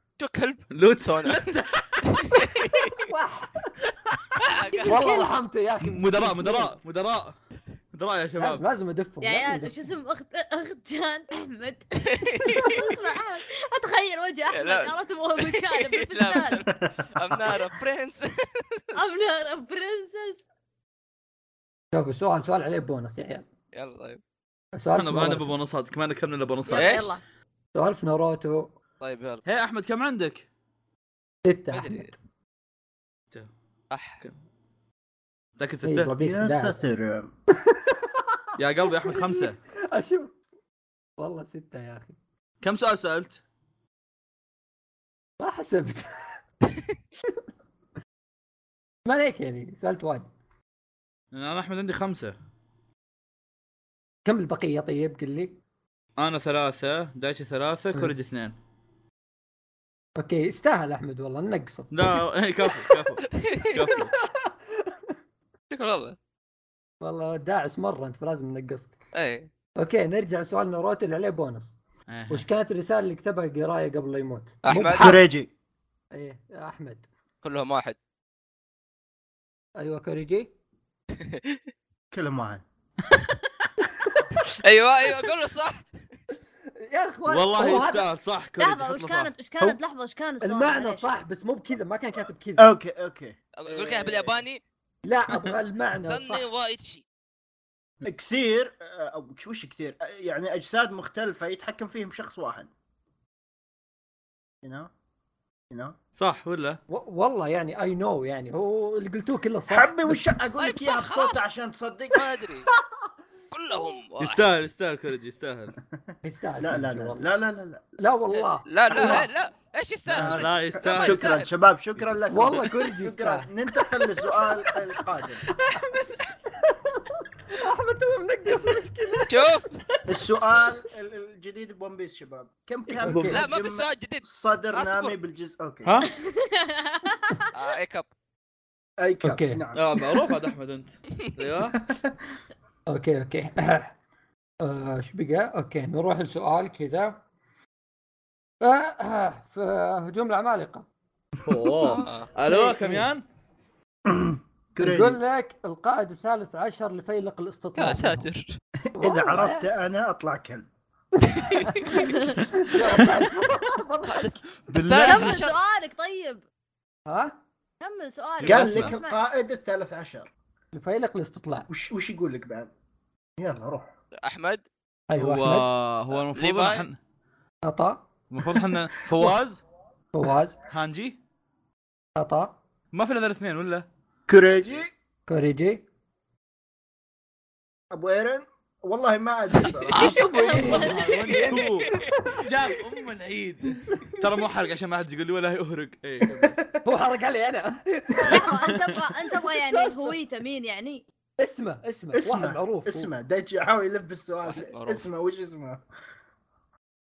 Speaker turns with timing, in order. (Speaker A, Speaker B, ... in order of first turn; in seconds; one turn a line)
Speaker A: 0.2-1.5
Speaker B: 0.7-2.5
Speaker A: 2.1-2.9
Speaker C: 2.9-3.7
Speaker A: 4.4-5.0
Speaker D: 4.7-5.3
Speaker C: 4.8-6.7
Speaker B: 5.8-7.3
Speaker B: 7.9-8.6
Speaker C: 8.4-9.9
Speaker D: 9.2-16.6
Speaker A: 12.1-12.8
Speaker A: 14.5-18.9
Speaker E: 16.8-17.6
Speaker D: 18.9-20.4
Speaker C: 21.9-23.4
Speaker A: 23.7-24.2
Speaker C: 24.7-25.5
Speaker B: 24.9-27.1
Speaker D: 26.7-27.2
Speaker A: 26.7-27.1
Speaker C: 27.7-28.7
Speaker A: 29.0-29.4
Speaker B: 29.4-30.4
Speaker C: 31.4-32.1
Speaker A: 31.7-32.1
Speaker A: 33.9-34.2
Speaker B: 35.6-36.1
Speaker C: 35.8-36.8
Speaker E: 36.2-37.3
Speaker C: 37.6-38.4
Speaker B: 38.6-39.6
Speaker C: 39.0-40.3
Speaker C: 41.2-42.2
Speaker B: 42.6-43.4
Speaker C: 45.4-46.4
Speaker C: 49.0-50.3
Speaker B: 51.3-52.3
Speaker C: 54.2-55.6
Speaker B: 56.2-58.5
Speaker C: 60.2-61.9
Speaker B: 61.9-64.1
Speaker A: 63.3-63.8
Speaker C: 64.0-65.1
Speaker A: 65.7-66.2
Speaker C: 67.0-69.0
Speaker A: 69.1-69.5
Speaker C: 69.8-71.8
Speaker B: 72.1-72.5
Speaker C: 72.3-75.0
Speaker A: 74.6-75.2
Speaker E: 74.7-75.5
Speaker C: 76.1-77.1
Speaker A: 77.4-78.0
Speaker C: 79.8-80.5
Speaker A: 81.2-81.6
Speaker E: 82.1-82.6
Speaker A: 84.4-85.8
Speaker C: 86.8-88.1
Speaker B: 87.3-89.3
Speaker D: 88.6-91.0
Speaker C: 90.4-92.7
Speaker E: 92.6-94.4
Speaker A: 93.6-94.6
Speaker C: 95.0-96.5
Speaker A: 96.1-97.0
Speaker E: 98.0-102.7
Speaker E: 104.6-104.9
Speaker E: 105.7-106.0
Speaker B: 106.2-106.8
Speaker C: 106.9-110.3
Speaker E: 109.7-112.3
Speaker A: 110.6-111.4
Speaker A: 112.1-112.7
Speaker A: 113.5-114.4
Speaker B: 114.2-115.7
Speaker C: 116.2-117.2
Speaker E: 116.6-118.0
Speaker C: 118.0-119.3
Speaker A: 118.3-121.5
Speaker E: 118.9-119.2
Speaker B: 120.1-121.4
Speaker E: 120.1-125.4
Speaker C: 122.3-123.5
Speaker C: 125.8-126.0
Speaker C: 126.5-129.6
Speaker A: 129.3-129.8
Speaker E: 130.1-135.9
Speaker C: 133.0-133.4
Speaker B: 133.1-133.4
Speaker A: 133.3-135.1
Speaker B: 135.8-136.1
Speaker D: 136.1-137.5
Speaker A: 137.5-138.1
Speaker E: 139.0-140.0
Speaker C: 139.2-139.6
Speaker B: 139.7-141.8
Speaker E: 141.7-142.1
Speaker C: 142.9-143.9
Speaker C: 144.6-147.2
Speaker C: 148.6-150.9
Speaker B: 151.4-153.2
Speaker A: 151.8-152.3
Speaker C: 152.4-153.1
Speaker E: 154.1-155.2
Speaker C: 154.8-158.2
Speaker A: 157.8-158.6
Speaker E: 158.9-160.7
Speaker C: 159.0-159.7
Speaker C: 161.3-162.1
Speaker A: 161.3-161.9
Speaker D: 161.9-162.4
Speaker C: 162.6-164.4
Speaker A: 164.0-165.6
Speaker B: 164.7-165.4
Speaker D: 165.1-166.4
Speaker C: 167.1-167.4
Speaker D: 167.8-169.2
Speaker B: 168.4-168.9
Speaker E: 168.4-170.3
Speaker C: 170.7-171.7
Speaker E: 171.7-172.7
Speaker E: 173.4-173.9
Speaker A: 174.2-174.6
Speaker C: 175.1-175.7
Speaker B: 175.2-177.0
Speaker A: 176.1-176.8
Speaker C: 177.6-178.0
Speaker B: 178.3-179.6
Speaker C: 180.1-180.6
Speaker B: 180.7-181.2
Speaker C: 182.2-182.6
Speaker B: 182.9-183.8
Speaker E: 184.3-184.9
Speaker C: 185.3-185.8
Speaker E: 187.9-190.0
Speaker B: 189.6-196.6
Speaker C: 189.9-192.4
Speaker D: 189.9-191.6
Speaker E: 196.2-196.8
Speaker C: 196.8-198.7
Speaker E: 198.1-198.5
Speaker D: 198.2-201.0
Speaker C: 199.4-200.1
Speaker C: 201.4-203.1
Speaker E: 202.1-205.8
Speaker A: 204.4-205.0